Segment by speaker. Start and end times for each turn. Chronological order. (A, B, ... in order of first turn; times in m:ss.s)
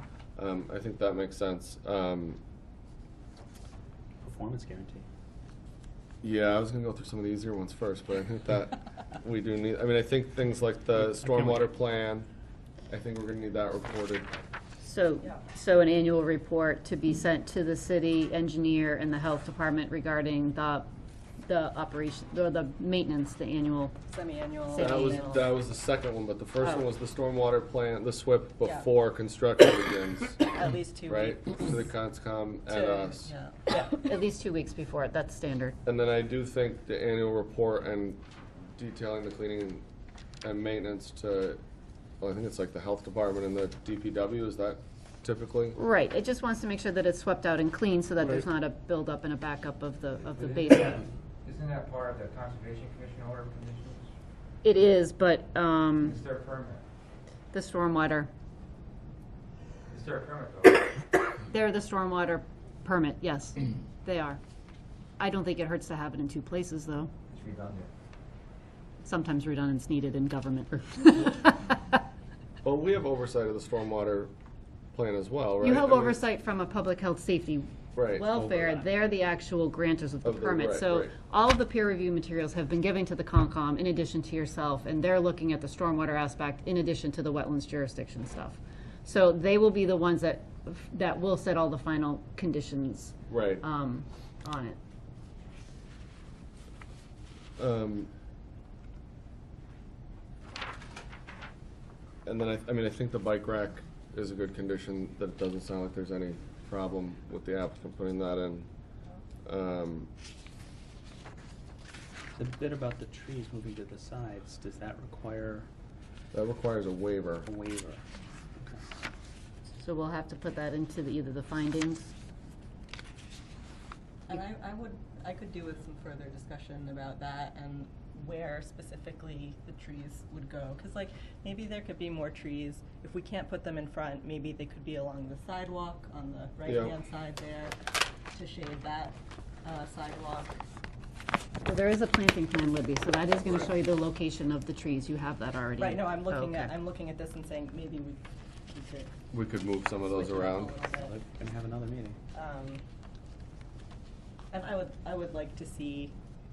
0:00.4-0:02.4 A
0:04.2-0:05.0 B
0:06.2-0:12.3 A
0:11.0-0:11.6 B
0:12.9-0:14.3 A
0:14.8-0:20.9 C
0:21.4-0:24.0 C
0:24.1-0:25.5 D
0:24.7-0:25.4 C
0:24.7-0:30.4 A
0:28.6-0:28.9 D
0:30.4-0:31.8 D
0:31.1-0:33.3 A
0:32.7-0:33.9 D
0:33.7-0:35.8 C
0:35.8-0:38.2 A
0:38.8-0:39.8 A
0:40.4-0:41.6 A
0:42.2-0:45.8 A
0:45.8-0:51.0 C
0:51.4-0:54.0 E
0:54.6-0:56.2 C
0:56.1-0:56.8 E
0:57.5-0:58.3 C
0:59.9-1:00.8 E
1:01.5-1:04.4 C
1:05.2-1:07.1 C
1:07.3-1:07.9 E
1:09.0-1:11.8 C
1:12.6-1:14.3 A
1:14.9-1:16.2 A
1:15.6-1:34.8 C
1:17.9-1:18.4 A
1:20.2-1:21.1 A
1:33.3-1:33.6 A
1:37.6-1:38.1 A
1:42.2-1:48.7 A
1:49.4-1:50.1 A
1:52.4-1:55.7 B
1:56.3-1:57.5 A
1:57.4-1:58.0 B
1:59.8-2:02.1 C
2:04.3-2:17.7 D
2:16.6-2:16.9 A
2:18.3-2:20.5 D
2:21.6-2:26.7 C
2:25.8-2:29.1 D
2:29.3-2:30.7 A
2:30.0-2:31.2 D
2:31.0-2:32.2 B
2:32.3-2:32.8 D
2:34.5-2:36.1 D